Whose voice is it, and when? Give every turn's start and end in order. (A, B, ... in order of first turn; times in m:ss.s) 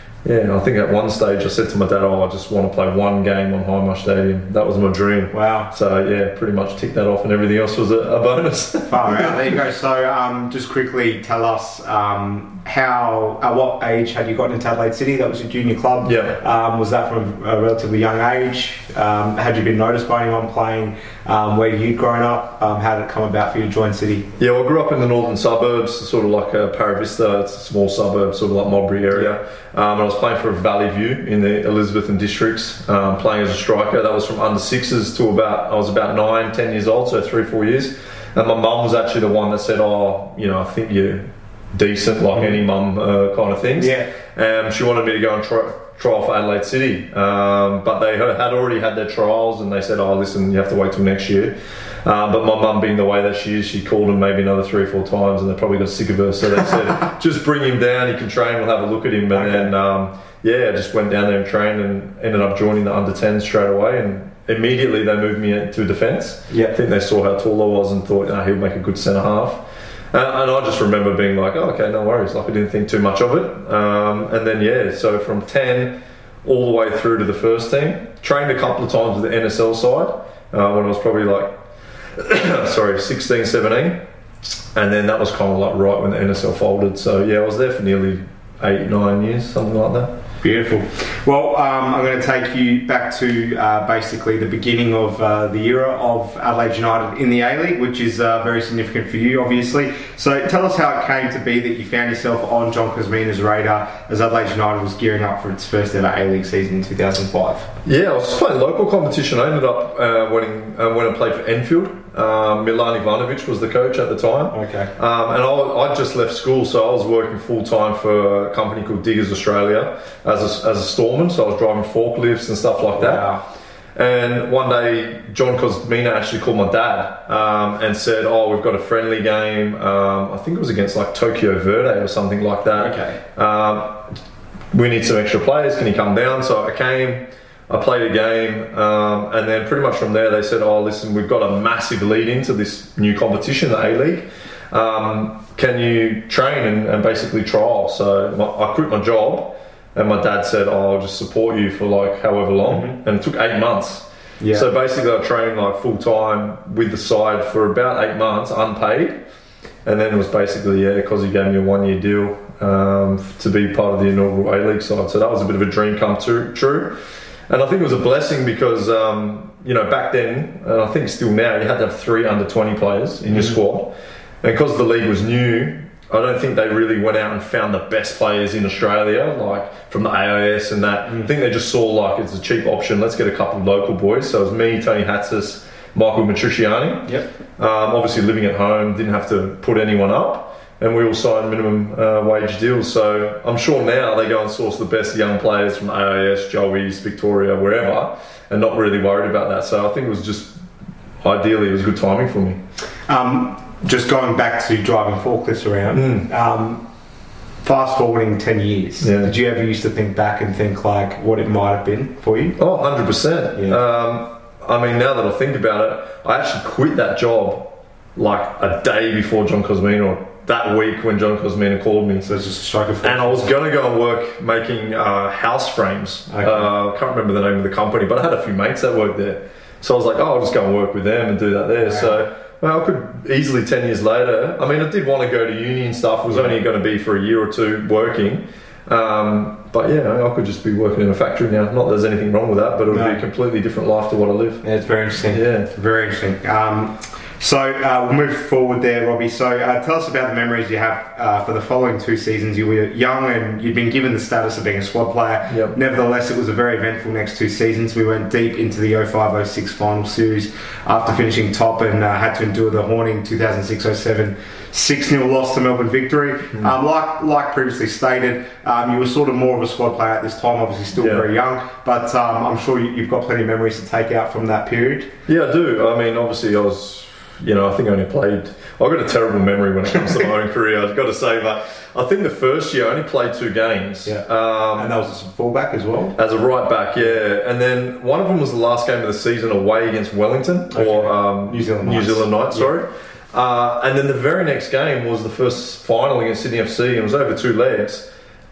0:00.2-0:09.4 A
0:05.3-0:05.7 B
0:08.9-0:24.3 B
0:16.0-0:16.4 A
0:24.4-1:21.6 A
0:29.1-0:29.4 B
0:42.3-0:42.6 B
0:43.8-0:44.1 B
0:59.3-0:59.7 B
1:06.5-1:06.7 B
1:22.2-1:24.0 A
1:24.7-1:30.2 A
1:30.4-1:47.7 B
1:47.8-2:03.3 A
1:54.5-1:54.9 B
2:02.9-2:03.4 B
2:03.9-2:14.1 A
2:12.7-2:13.2 B
2:14.7-2:39.2 A
2:32.7-2:33.0 B
2:34.4-2:34.7 B
2:39.8-2:47.0 A
2:47.5-3:20.6 A
2:53.3-2:53.6 B
3:01.0-3:01.3 B
3:21.2-3:22.6 A
3:23.1-3:26.8 B
3:25.9-3:26.3 A
3:27.6-3:32.6 B
3:29.0-3:29.3 A
3:32.6-3:42.3 A
3:33.5-3:33.8 B
3:42.2-3:43.5 B
3:43.0-4:04.6 A
3:46.3-3:46.7 B
3:51.8-3:52.2 B
3:56.3-3:56.5 B
4:02.9-4:03.2 B
4:04.6-4:35.1 B
4:05.3-4:05.7 A
4:15.5-4:15.8 A
4:31.0-4:31.3 A
4:35.3-4:44.9 A
4:40.0-4:40.3 B
4:44.0-4:46.2 B
4:46.2-4:58.1 A
4:50.7-4:52.7 B